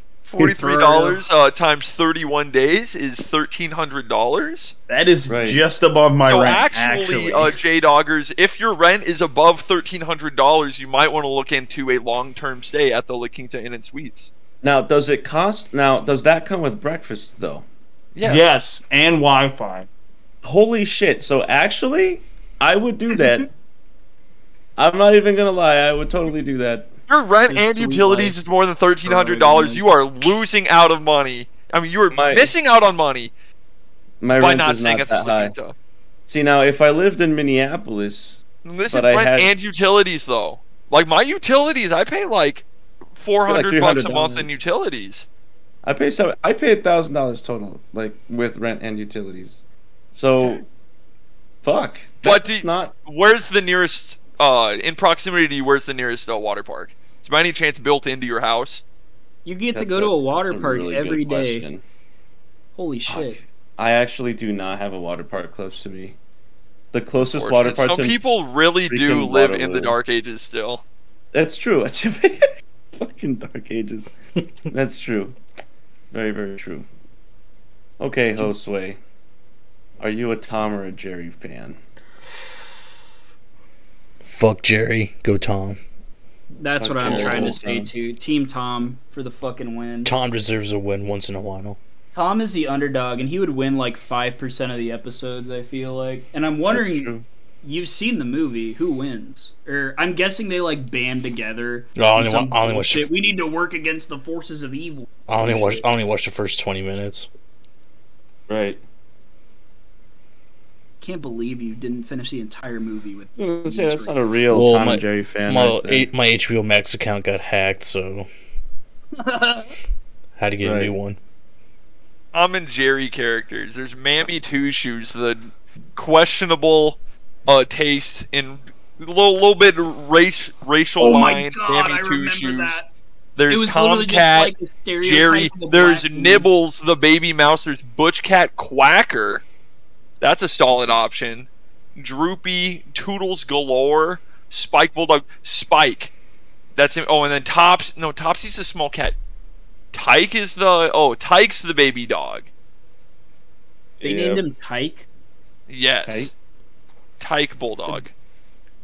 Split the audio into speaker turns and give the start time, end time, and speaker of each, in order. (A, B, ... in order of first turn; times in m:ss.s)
0:00.3-0:04.7 A
0:00.4-0:01.2 B
0:04.9-0:07.6 C
0:05.3-0:05.6 D
0:06.3-0:14.3 A
0:14.6-0:17.6 D
0:18.2-0:18.5 A
0:18.2-0:19.9 C
0:20.4-0:23.5 D
0:24.8-0:26.9 D
0:27.1-0:33.3 A
0:27.5-0:28.4 B
0:29.1-0:29.8 B
0:29.1-0:29.8 D
0:32.1-0:32.5 D
0:34.2-0:35.5 D
0:34.4-0:35.8 A
0:36.3-0:39.5 D
0:38.6-0:42.7 A
0:43.2-0:45.3 A
0:43.5-0:44.5 D
0:45.8-0:49.6 D
0:50.1-0:50.6 D
0:51.6-0:52.9 D
0:52.2-0:58.8 A
0:59.4-1:01.6 B
0:59.7-1:01.8 D
1:02.8-1:03.4 B
1:03.1-1:06.2 D
1:06.9-1:08.2 D
1:07.3-1:10.8 A
1:08.9-1:10.0 D
1:11.3-1:14.1 D
1:14.7-1:15.4 D
1:16.1-1:16.9 D
1:18.0-1:19.0 D
1:20.0-1:21.8 D
1:24.2-1:25.8 E
1:26.6-1:30.2 B
1:26.8-1:27.9 D
1:27.0-1:27.6 E
1:30.0-1:31.8 E
1:32.1-1:37.1 B
1:36.7-1:37.3 D
1:37.6-1:45.8 B
1:42.0-1:43.1 E
1:45.3-1:47.3 E
1:48.5-1:48.8 D
1:51.0-1:54.2 B
1:53.4-1:56.1 D
1:54.5-1:58.3 E
1:59.2-1:59.7 B
2:00.4-2:01.2 E
2:00.6-2:01.0 D
2:02.3-2:12.8 A
2:11.0-2:12.9 B
2:13.4-2:19.4 A
2:13.5-2:16.5 B
2:20.2-2:26.1 A
2:26.8-2:29.2 A
2:29.9-2:32.5 A
2:34.0-2:34.4 D
2:34.0-2:35.1 B
2:35.7-2:36.3 A
2:36.1-2:36.3 D
2:37.2-2:38.1 A